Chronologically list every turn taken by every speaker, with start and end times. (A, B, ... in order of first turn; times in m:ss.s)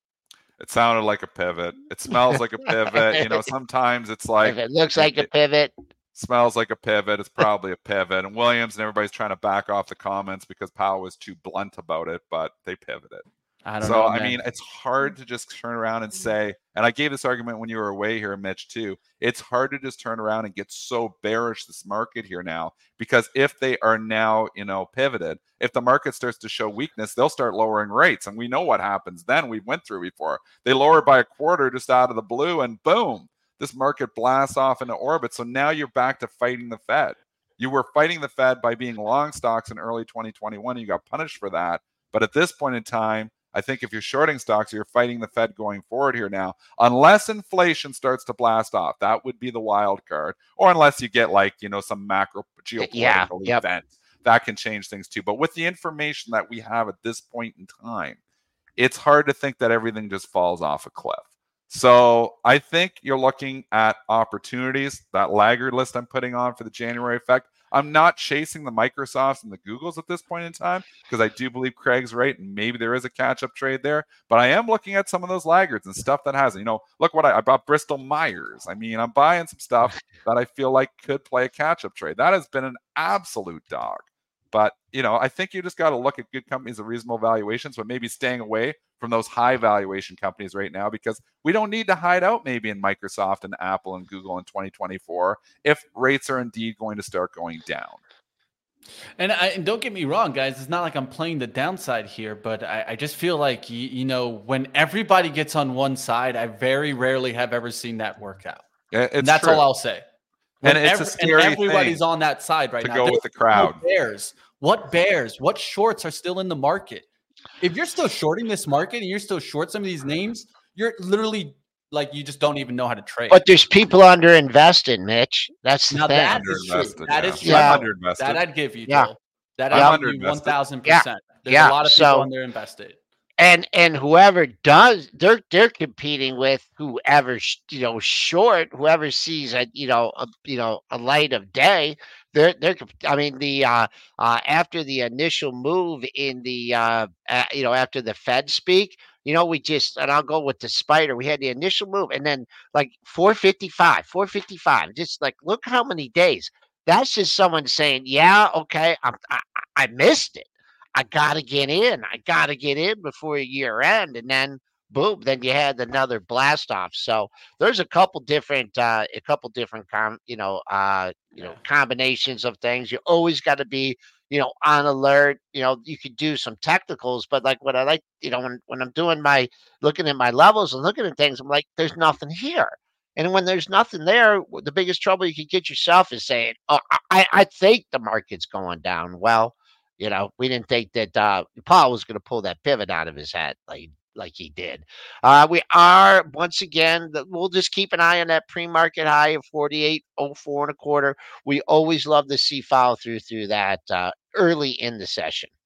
0:00.6-0:05.3 A
0:03.0-0:03.5 B
0:04.4-0:05.7 B
0:06.2-0:13.2 A
0:13.6-0:14.4 C
0:13.8-0:58.2 A
0:52.8-0:53.6 B
0:58.8-1:38.0 A
1:39.2-1:48.6 C
1:48.9-1:49.7 A
1:49.2-1:50.0 C
1:50.6-1:57.0 C
1:50.6-1:52.0 A
1:52.8-1:53.8 A
1:57.6-2:03.4 C
2:03.3-2:06.9 B
2:05.9-2:13.0 C
2:06.3-2:08.4 A
2:07.4-2:07.8 B
2:09.7-2:10.6 A
2:10.8-2:12.3 B
2:13.4-3:25.5 B